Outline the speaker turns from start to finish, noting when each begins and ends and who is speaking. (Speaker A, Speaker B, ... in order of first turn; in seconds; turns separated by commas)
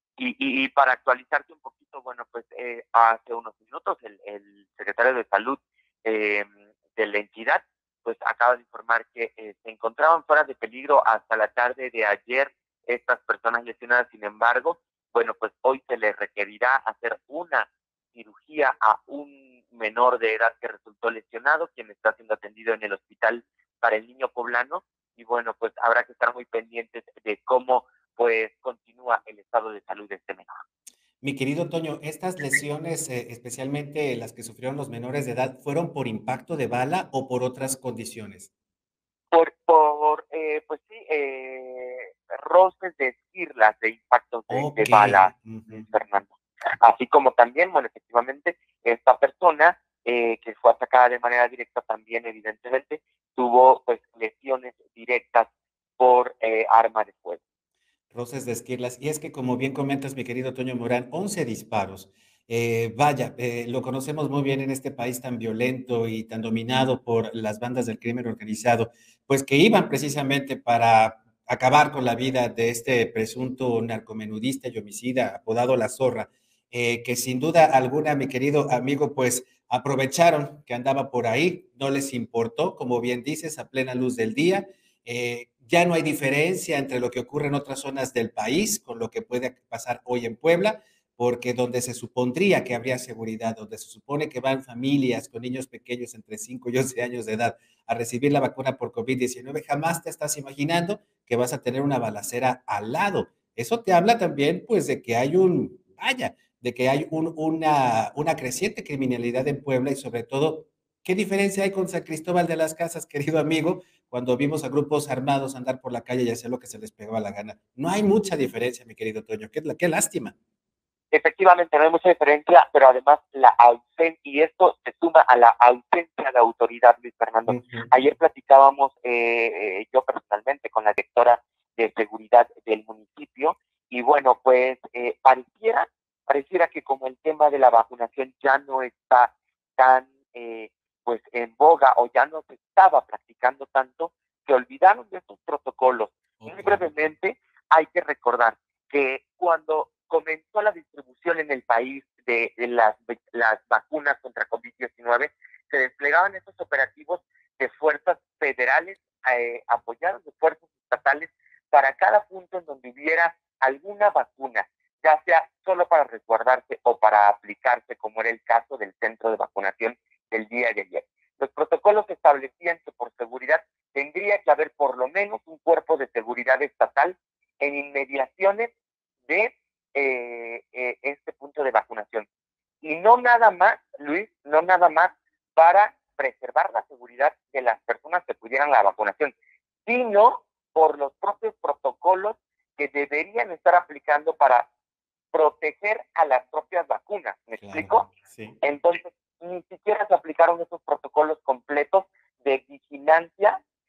Speaker A: 0.2-30.6, Speaker B: 31.2-38.5, Speaker A: 39.3-45.3, Speaker B: 44.5-45.9, Speaker A: 45.9-57.4, Speaker B: 58.1-120.3, Speaker A: 121.1-178.7, Speaker B: 127.5-127.9, Speaker B: 146.4-146.9, Speaker A: 179.3-182.2, Speaker A: 182.8-189.3, Speaker A: 189.9-194.6, Speaker A: 195.3-198.1, Speaker B: 197.6-198.6, Speaker A: 198.6-203.6